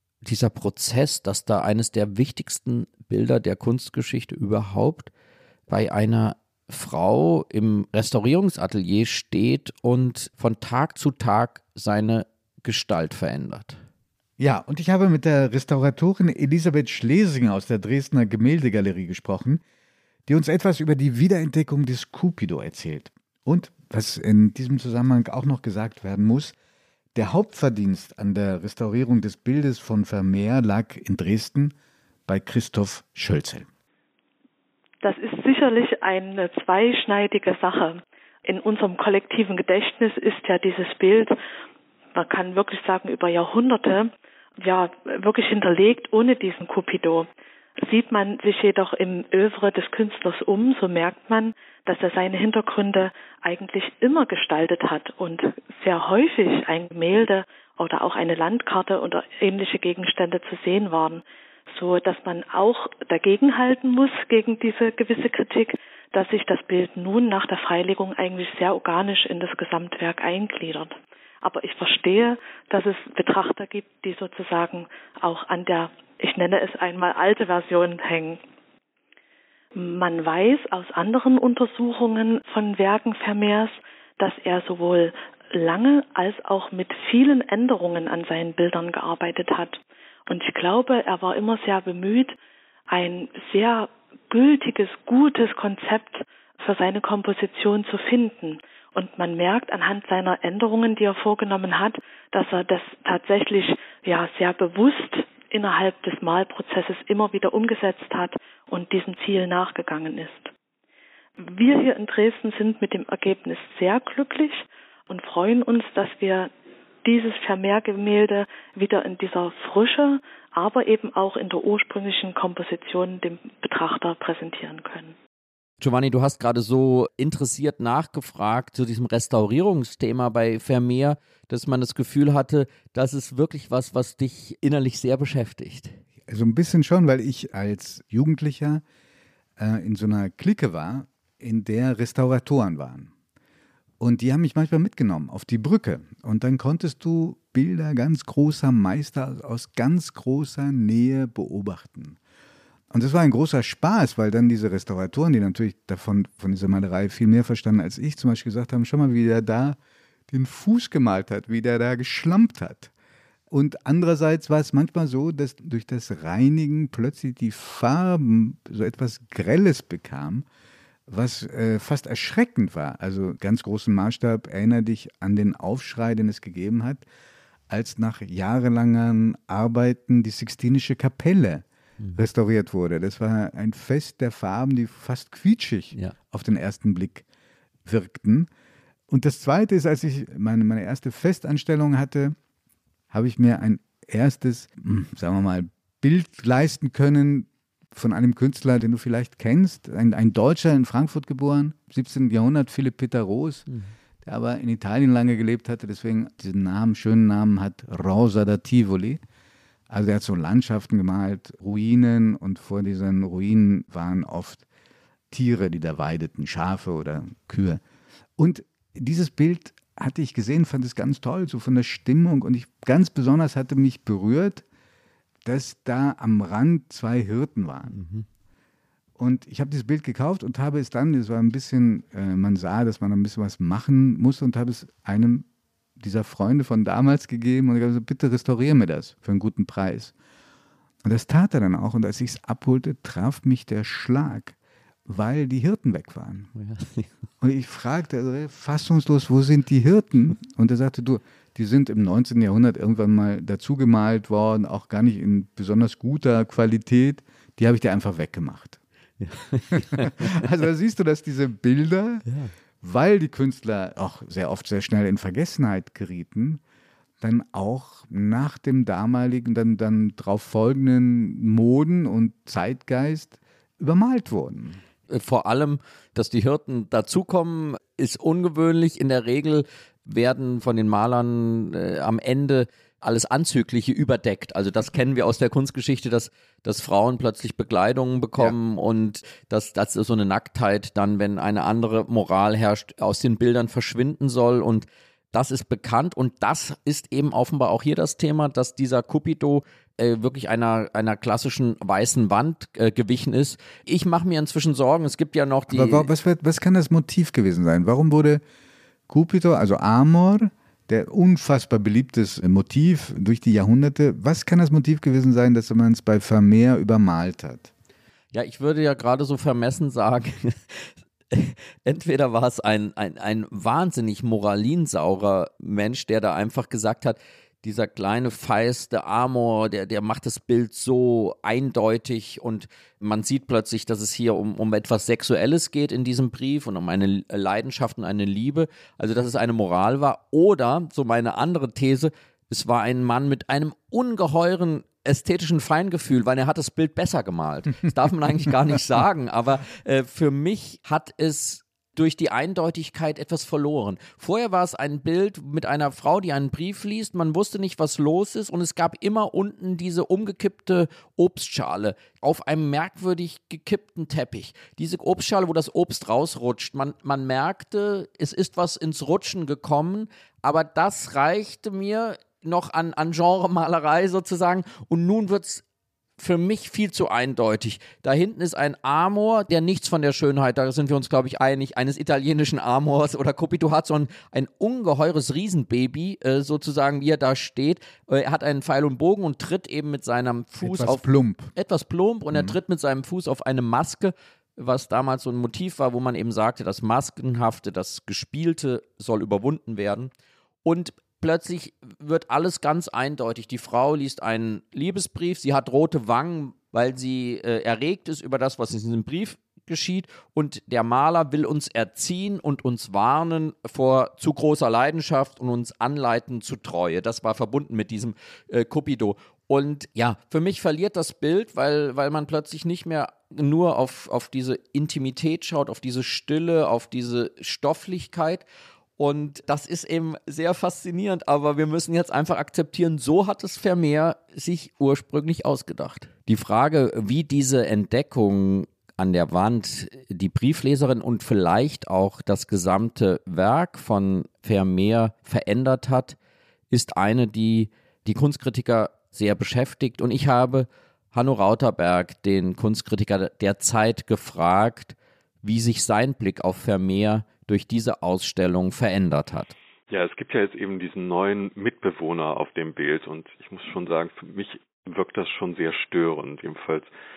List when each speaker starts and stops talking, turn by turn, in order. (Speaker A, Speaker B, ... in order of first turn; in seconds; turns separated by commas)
Speaker A: 0.2-5.1, Speaker A: 5.7-13.8, Speaker B: 14.4-19.6, Speaker B: 20.3-26.6, Speaker B: 27.1-31.8, Speaker B: 32.3-33.7, Speaker C: 35.0-41.4, Speaker C: 42.1-47.3, Speaker C: 47.8-78.4, Speaker C: 79.8-92.4, Speaker C: 92.9-110.5, Speaker C: 111.4-116.5, Speaker C: 117.0-125.2, Speaker A: 125.8-136.0, Speaker B: 136.3-138.8, Speaker B: 139.6-143.1, Speaker B: 144.0-152.2, Speaker B: 152.9-159.8, Speaker B: 160.3-162.9, Speaker B: 163.5-170.5, Speaker B: 171.1-177.1, Speaker B: 177.7-187.3, Speaker B: 187.8-188.5, Speaker B: 189.1-192.3, Speaker B: 193.1-203.7, Speaker B: 204.2-209.2, Speaker B: 209.9-214.7, Speaker B: 215.3-217.8, Speaker B: 218.4-224.7, Speaker B: 225.4-228.0, Speaker A: 227.9-228.3, Speaker B: 229.2-235.5, Speaker B: 236.0-240.1, Speaker B: 241.0-244.6, Speaker B: 245.1-246.5, Speaker A: 246.6-247.1, Speaker B: 247.4-258.8, Speaker A: 259.2-260.4, Speaker B: 259.7-262.2, Speaker A: 262.3-262.5, Speaker B: 262.8-266.6, Speaker B: 267.2-274.8, Speaker A: 275.1-306.1, Speaker B: 305.7-308.4, Speaker B: 309.1-317.7, Speaker A: 318.3-375.6, Speaker A: 376.2-400.1, Speaker B: 390.6-391.5, Speaker A: 400.6-428.4, Speaker A: 429.0-446.2, Speaker A: 446.7-459.5, Speaker D: 459.9-466.9